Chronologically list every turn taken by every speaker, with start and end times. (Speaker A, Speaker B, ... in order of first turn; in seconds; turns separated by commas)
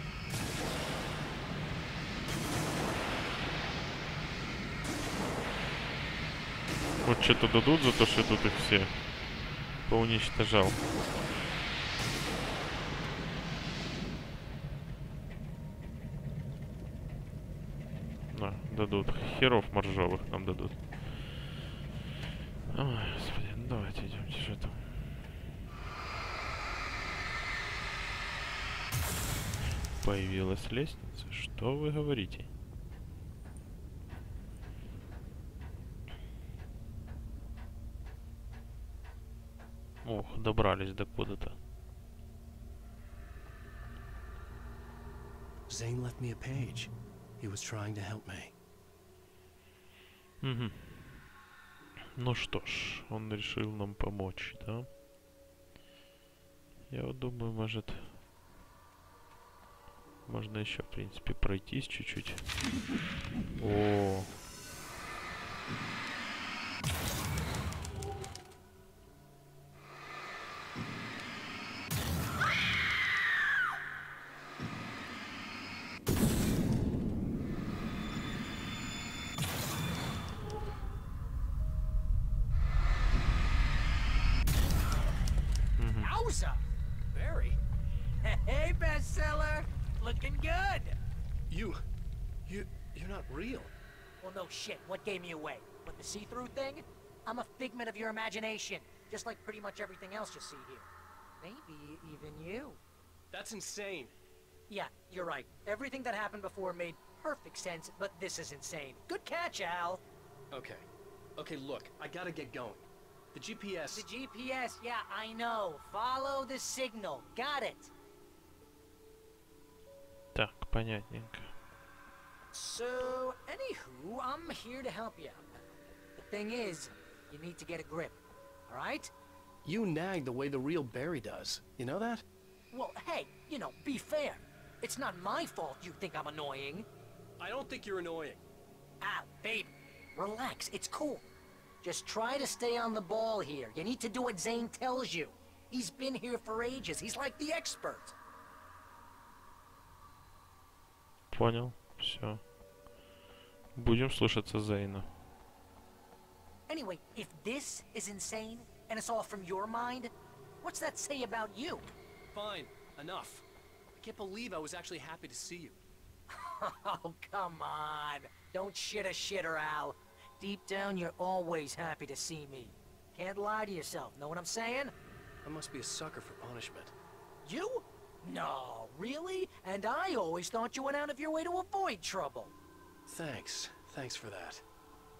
Speaker A: 7.0-8.9, Speaker A: 9.8-10.8, Speaker A: 18.3-21.0, Speaker A: 22.7-25.0, Speaker A: 30.0-32.5, Speaker A: 40.0-41.6, Speaker B: 45.7-48.5, Speaker A: 50.4-51.0, Speaker A: 52.1-54.9, Speaker A: 56.9-58.1, Speaker A: 60.2-62.4, Speaker A: 63.6-64.3, Speaker A: 85.8-86.1, Speaker C: 86.0-86.6, Speaker D: 87.1-87.6, Speaker C: 88.2-91.0, Speaker B: 91.5-91.8, Speaker B: 92.5-93.7, Speaker C: 94.2-100.9, Speaker C: 101.4-102.8, Speaker D: 103.3-104.1, Speaker C: 104.7-110.0, Speaker D: 110.5-110.8, Speaker D: 111.4-114.0, Speaker C: 113.9-117.9, Speaker A: 120.3-121.5, Speaker C: 122.5-125.5, Speaker C: 126.2-128.2, Speaker C: 128.7-129.1, Speaker B: 129.6-132.2, Speaker C: 132.7-136.9, Speaker D: 137.4-138.4, Speaker C: 139.0-141.2, Speaker C: 141.8-148.1, Speaker A: 151.3-152.4, Speaker A: 153.8-155.1, Speaker C: 156.7-161.9, Speaker D: 162.3-165.8, Speaker C: 166.3-174.9, Speaker B: 175.4-176.9, Speaker C: 177.4-182.5, Speaker B: 183.1-184.6